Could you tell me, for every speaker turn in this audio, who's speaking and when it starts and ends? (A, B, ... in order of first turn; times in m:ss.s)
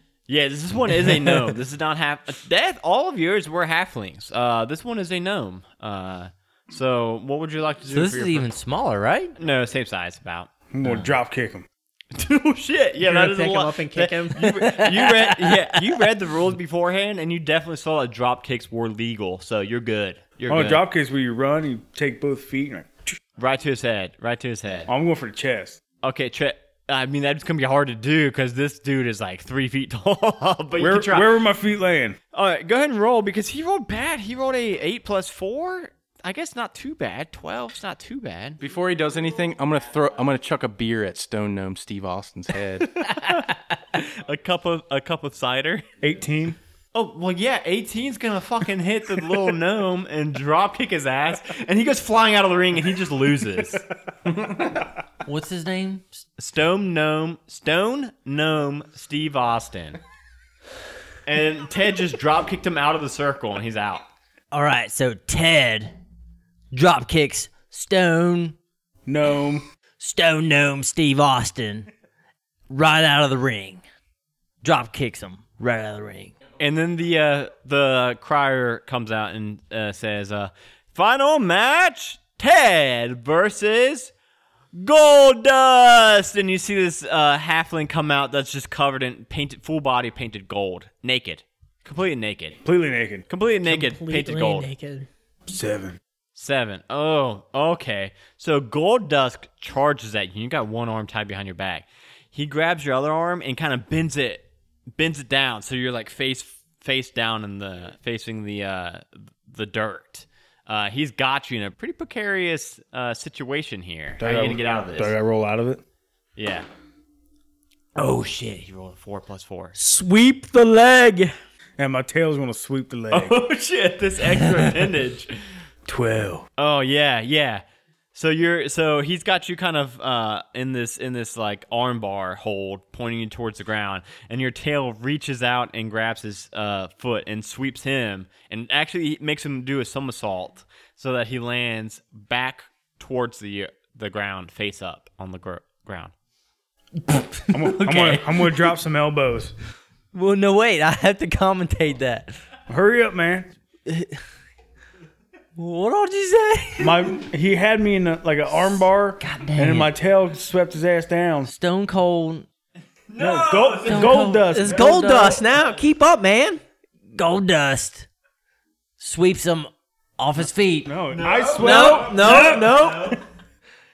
0:00.3-0:08.5 A
0:07.9-0:09.3 B
0:09.4-0:11.0 A
0:10.7-0:11.7 C
0:12.1-0:20.8 A
0:13.0-0:14.4 D
0:14.4-0:16.0 B
0:20.5-0:23.1 C
0:23.4-0:24.9 A
0:24.9-0:25.8 C
0:26.0-0:31.4 A
0:30.8-0:32.2 C
0:32.3-0:38.6 A
0:38.6-0:43.0 E
0:43.0-0:45.8 A
0:46.0-0:46.6 C
0:46.9-0:53.8 A
0:55.2-0:56.2 B
0:56.4-1:00.0 A
1:01.2-1:04.0 A
1:04.5-1:05.9 B
1:06.7-1:08.6 B
1:09.1-1:09.6 C
1:10.0-1:11.9 B
1:12.7-1:13.8 B
1:14.6-1:16.3 B
1:16.6-1:24.1 A
1:24.7-1:32.6 A
1:32.6-1:33.2 C
1:33.3-1:34.7 A
1:33.6-1:35.1 D
1:35.5-1:36.0 C
1:36.3-1:44.4 A
1:45.0-1:55.2 A
1:54.2-1:55.8 C
1:56.4-1:56.7 A
1:58.0-1:59.8 A
1:59.8-2:03.3 C
2:03.1-2:05.4 A
2:05.8-2:06.4 C
2:06.6-2:26.1 A
2:27.0-2:28.7 B
2:27.5-2:29.5 C
2:30.1-2:32.4 B
2:32.7-2:33.5 C
2:33.9-2:34.2 B
2:35.6-2:37.2 B
2:36.8-2:41.5 C
2:39.2-2:39.9 B
2:41.5-2:42.5 B
2:43.1-2:44.3 A
2:43.2-2:45.0 C
2:43.8-2:45.4 B
2:44.5-2:46.6 D
2:47.1-2:48.1 B
2:49.0-2:50.9 B
2:50.8-2:52.7 C
2:51.1-2:53.2 A
2:51.6-2:53.2 D